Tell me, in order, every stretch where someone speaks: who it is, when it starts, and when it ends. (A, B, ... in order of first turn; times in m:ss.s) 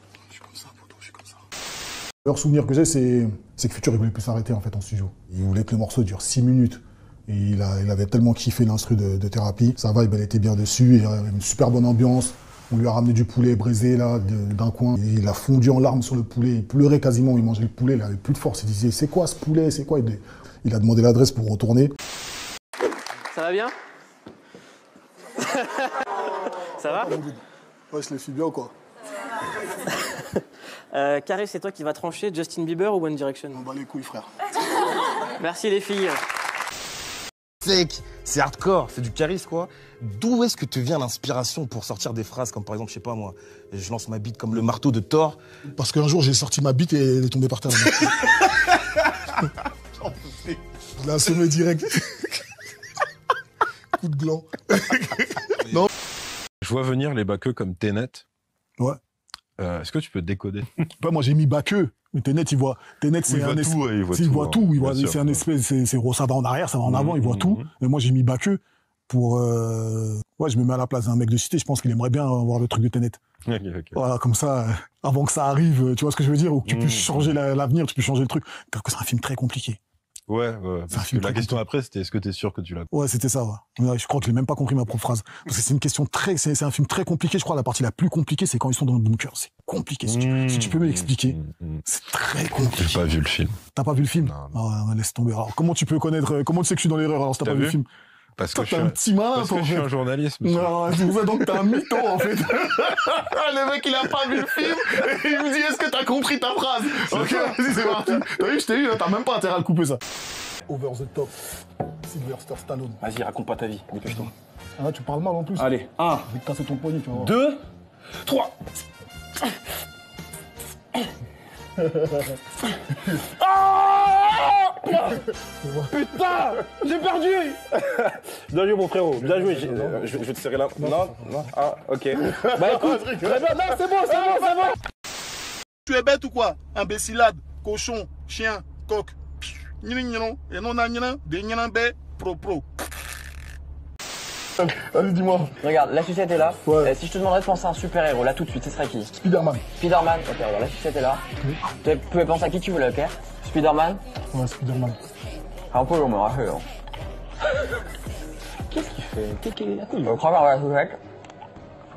0:00.3-0:01.4 A
0:02.2-0:21.9 A
0:23.3-0:23.7 B
0:25.5-0:25.9 B
0:26.8-0:27.1 B
0:27.0-0:28.7 A
0:30.9-0:33.6 B
0:33.5-0:34.3 A
0:35.4-0:36.2 B
0:37.6-0:45.4 C
0:45.7-0:48.4 A
0:51.0-0:52.4 A
0:54.0-0:55.9 A
0:56.6-0:58.2 D
0:59.6-1:00.8 D
1:01.0-1:13.2 A
1:03.2-1:05.4 D
1:06.9-1:07.6 D
1:13.5-1:14.0 D
1:13.9-1:19.8 A
1:16.7-1:17.3 D
1:20.3-1:22.8 D
1:20.9-1:21.6 A
1:22.9-1:33.2 A
1:30.1-1:31.8 D
1:32.6-1:33.6 D
1:33.7-1:37.9 A
1:34.2-1:34.6 D
1:37.4-1:37.8 D
1:38.4-1:41.0 D
1:38.5-1:39.9 A
1:40.4-1:50.0 A
1:50.7-1:51.3 A
1:52.0-1:53.0 A
1:54.0-1:57.4 A
2:05.6-2:06.0 A
2:06.0-2:07.5 E
2:08.7-2:11.5 F
2:09.2-2:11.5 A
2:12.4-2:13.4 A
2:13.5-2:14.4 E
2:15.8-2:22.7 A
2:24.6-2:25.5 A
2:25.6-2:29.1 E
2:26.6-2:26.9 A
2:29.1-2:29.6 A
2:29.8-2:31.2 E
2:31.8-2:34.0 E
2:34.3-2:35.0 A
2:35.7-2:36.7 E
2:40.0-2:41.0 E